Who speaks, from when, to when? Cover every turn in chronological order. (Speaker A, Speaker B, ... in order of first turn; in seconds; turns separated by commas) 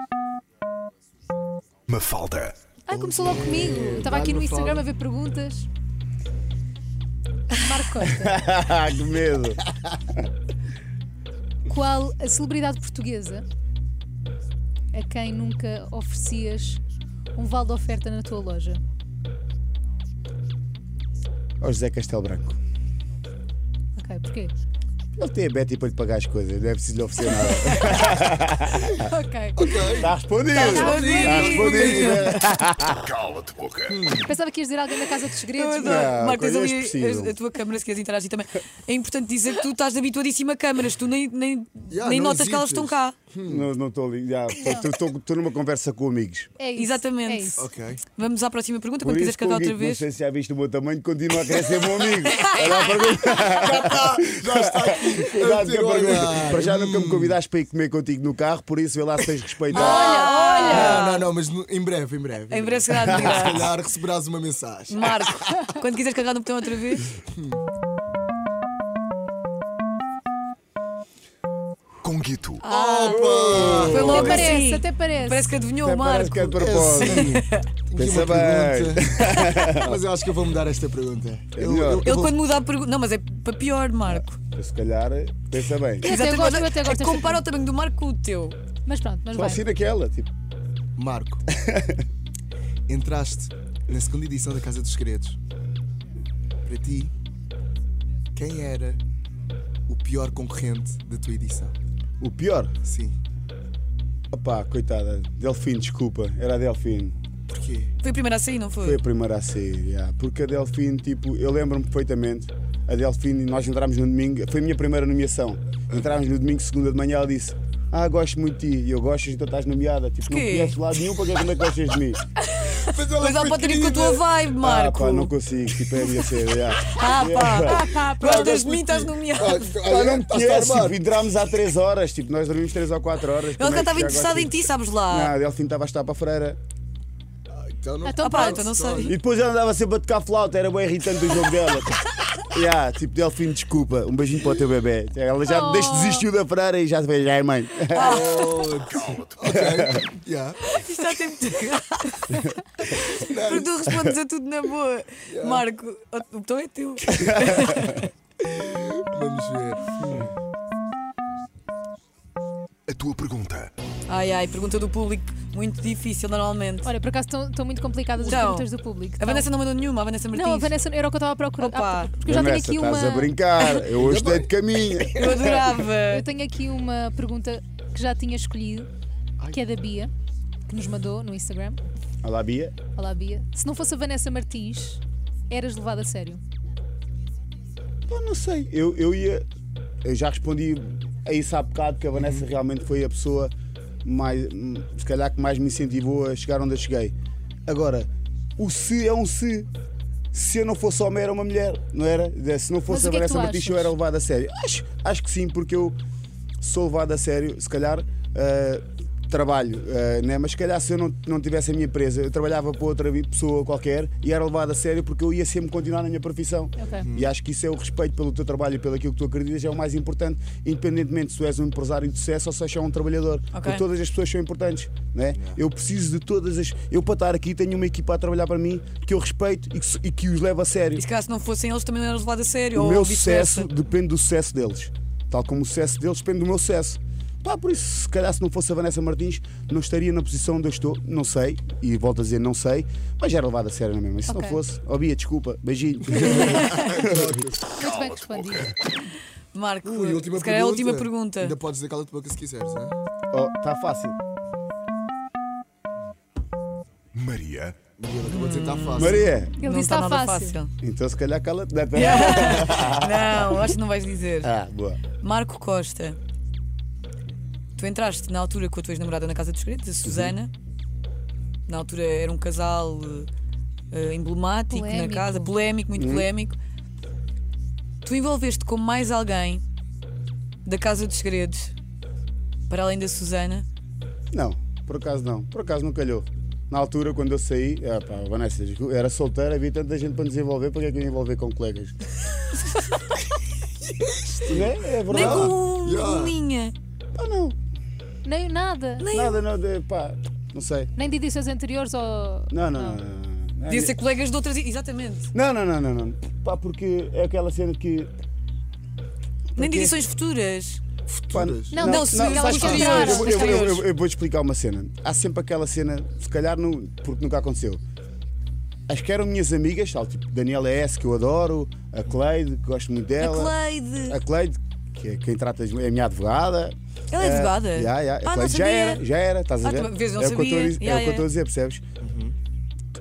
Speaker A: 1.9-2.6, Speaker B: 2.9-5.7, Speaker C: 2.9-4.9, Speaker B: 7.6-8.4, Speaker D: 8.0-10.2, Speaker B: 11.7-13.4, Speaker B: 14.9-16.8, Speaker B: 17.4-18.8, Speaker D: 21.6-22.6, Speaker B: 24.0-24.5, Speaker D: 25.2-29.0, Speaker B: 27.8-28.0, Speaker B: 28.9-32.2, Speaker C: 29.6-30.1, Speaker D: 30.0-33.0, Speaker E: 30.5-32.3, Speaker C: 31.5-32.4, Speaker A: 33.0-34.0, Speaker C: 33.9-34.4, Speaker B: 34.2-36.1, Speaker E: 35.5-43.2, Speaker D: 35.8-37.3, Speaker C: 41.9-43.7, Speaker D: 43.5-46.5, Speaker B: 46.6-47.6, Speaker E: 46.8-50.0, Speaker C: 47.6-48.0, Speaker D: 49.0-60.1, Speaker E: 52.2-52.8, Speaker C: 52.6-57.4, Speaker C: 59.7-65.6, Speaker E: 59.7-61.3, Speaker B: 59.8-61.1, Speaker E: 62.5-63.7, Speaker E: 64.9-67.1, Speaker C: 67.2-67.6, Speaker A: 72.0-72.6, Speaker E: 72.6-76.6, Speaker C: 72.6-74.6, Speaker D: 73.1-74.5, Speaker B: 74.2-75.5, Speaker D: 75.8-77.4, Speaker C: 76.6-82.4, Speaker E: 77.2-77.7, Speaker D: 78.0-80.0, Speaker D: 81.6-82.1, Speaker E: 82.0-84.4, Speaker D: 84.1-86.1, Speaker B: 86.0-87.4, Speaker E: 86.0-88.6, Speaker B: 88.9-89.6, Speaker D: 89.3-90.3, Speaker C: 91.0-91.4, Speaker D: 91.5-92.0, Speaker C: 92.9-95.4, Speaker C: 96.7-97.1, Speaker C: 98.3-99.0, Speaker C: 99.9-101.8, Speaker D: 102.2-102.8, Speaker C: 102.8-103.2, Speaker D: 104.3-107.2, Speaker C: 107.5-107.9, Speaker E: 108.0-109.0, Speaker D: 108.8-122.2, Speaker E: 120.2-120.8, Speaker E: 122.5-125.3, Speaker C: 122.7-124.3, Speaker D: 124.6-127.9, Speaker E: 126.8-129.8, Speaker B: 127.6-128.5, Speaker C: 127.9-131.1, Speaker D: 129.8-136.6, Speaker E: 133.6-135.3, Speaker C: 137.5-139.2, Speaker B: 138.0-138.7, Speaker E: 138.2-139.2, Speaker D: 139.0-148.4, Speaker B: 145.5-146.2, Speaker E: 147.9-148.7, Speaker C: 147.9-150.6, Speaker A: 148.9-149.5, Speaker D: 149.5-150.1, Speaker E: 150.6-158.1, Speaker C: 153.0-153.8, Speaker C: 155.3-155.7, Speaker D: 157.1-157.9, Speaker C: 158.4-160.3, Speaker A: 162.9-163.7, Speaker E: 164.1-166.9, Speaker B: 166.8-169.5, Speaker E: 168.2-170.8, Speaker B: 170.3-173.9, Speaker E: 171.6-172.1, Speaker D: 172.2-175.8, Speaker C: 173.9-174.5, Speaker E: 175.1-176.3, Speaker B: 176.1-178.9, Speaker B: 179.5-180.1, Speaker B: 180.7-181.8, Speaker D: 182.2-182.8, Speaker B: 182.9-186.4, Speaker D: 188.1-189.4, Speaker D: 190.0-193.5, Speaker D: 194.0-197.1, Speaker D: 197.7-199.7, Speaker D: 200.3-206.0, Speaker B: 202.9-203.9, Speaker D: 206.6-231.1, Speaker B: 216.8-217.1, Speaker C: 217.0-217.3, Speaker E: 223.5-223.8, Speaker C: 225.3-225.6, Speaker E: 231.0-233.7, Speaker D: 232.7-247.3, Speaker B: 244.3-244.6, Speaker C: 246.2-247.8, Speaker B: 247.8-248.8, Speaker A: 247.8-248.7, Speaker E: 249.5-251.6, Speaker C: 249.8-253.0, Speaker D: 253.3-254.2, Speaker A: 257.1-257.8, Speaker C: 258.0-259.5, Speaker E: 258.3-260.7, Speaker D: 259.0-259.5, Speaker B: 259.6-260.6, Speaker D: 260.8-263.7, Speaker E: 261.9-264.5, Speaker D: 264.4-265.0, Speaker E: 265.2-266.2, Speaker E: 267.8-270.5, Speaker D: 270.0-270.4, Speaker E: 271.7-273.3, Speaker E: 273.9-276.6, Speaker B: 274.7-275.5, Speaker D: 275.9-276.3, Speaker E: 278.0-279.6, Speaker E: 280.6-281.7, Speaker E: 282.7-283.7, Speaker D: 284.3-292.0, Speaker C: 293.9-296.4, Speaker D: 294.5-295.6, Speaker E: 295.1-296.8, Speaker D: 297.1-297.6, Speaker B: 298.2-299.1, Speaker E: 299.0-299.4, Speaker D: 299.1-300.9, Speaker B: 301.0-303.0, Speaker D: 302.5-303.9, Speaker E: 303.7-305.3, Speaker D: 305.3-308.1, Speaker D: 309.6-310.0, Speaker E: 309.6-310.8, Speaker C: 311.1-311.8, Speaker D: 311.3-317.8, Speaker B: 311.7-313.7, Speaker E: 311.8-313.9, Speaker C: 312.5-313.5, Speaker D: 318.9-331.8, Speaker E: 323.2-324.2, Speaker E: 327.1-329.0, Speaker E: 329.6-331.3, Speaker C: 332.0-332.4